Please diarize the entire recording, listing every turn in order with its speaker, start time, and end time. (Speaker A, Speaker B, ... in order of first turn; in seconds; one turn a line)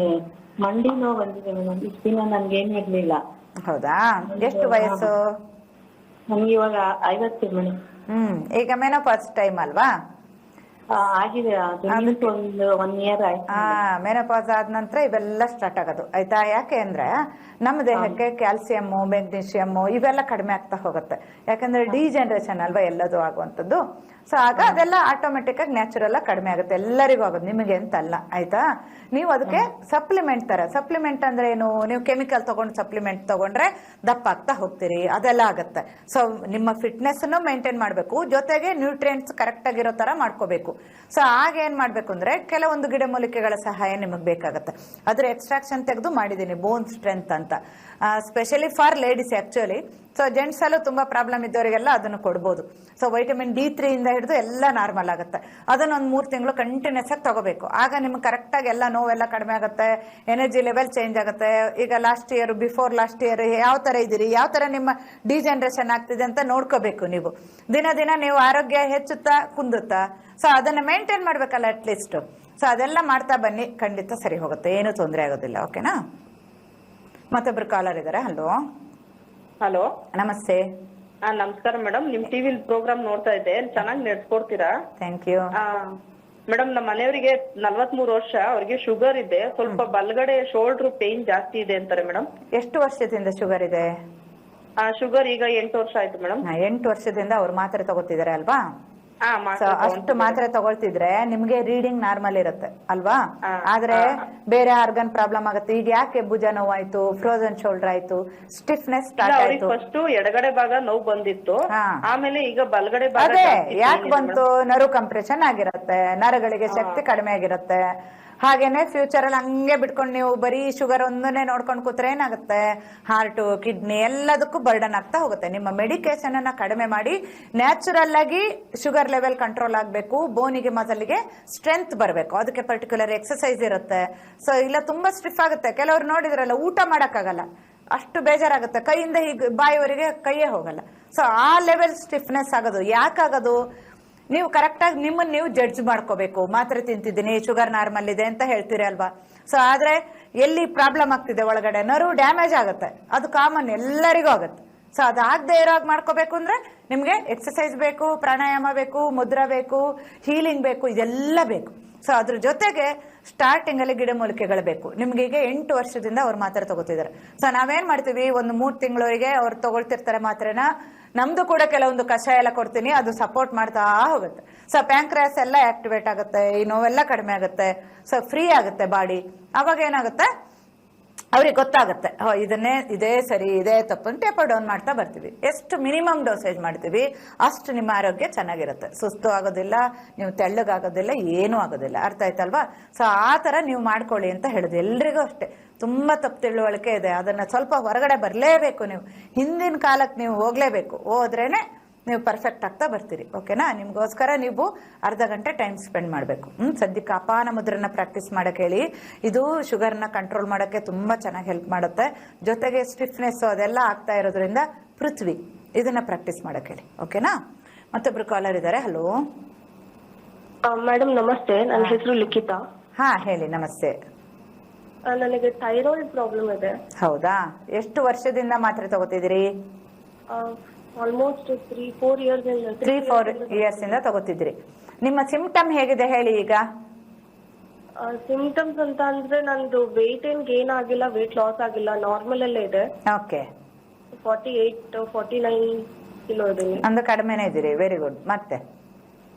Speaker A: 0.6-3.2
Speaker B: 3.7-5.2
Speaker A: 4.4-5.1
Speaker A: 6.3-7.7
Speaker B: 8.1-9.9
Speaker A: 11.0-13.8
Speaker B: 11.9-12.3
Speaker B: 13.5-17.1
Speaker B: 17.6-76.0
Speaker B: 77.3-78.5
Speaker C: 79.6-79.9
Speaker B: 80.1-80.7
Speaker C: 81.2-84.7
Speaker B: 85.0-85.5
Speaker C: 85.6-85.9
Speaker C: 86.5-92.3
Speaker B: 92.6-93.9
Speaker C: 94.8-96.4
Speaker B: 96.5-98.6
Speaker C: 99.3-100.4
Speaker B: 99.6-109.7
Speaker C: 103.5-104.2
Speaker C: 109.2-111.6
Speaker B: 111.7-112.0
Speaker C: 112.1-114.4
Speaker B: 113.2-117.8
Speaker C: 116.7-117.0
Speaker B: 118.4-143.6
Speaker B: 144.3-180.3
Speaker B: 181.3-217.4
Speaker B: 217.9-219.1
Speaker D: 220.7-222.6
Speaker B: 223.0-223.9
Speaker D: 225.1-226.8
Speaker B: 227.0-229.4
Speaker D: 230.3-234.0
Speaker B: 232.8-236.6
Speaker D: 238.0-242.9
Speaker B: 243.1-243.5
Speaker D: 244.2-246.8
Speaker B: 246.8-248.6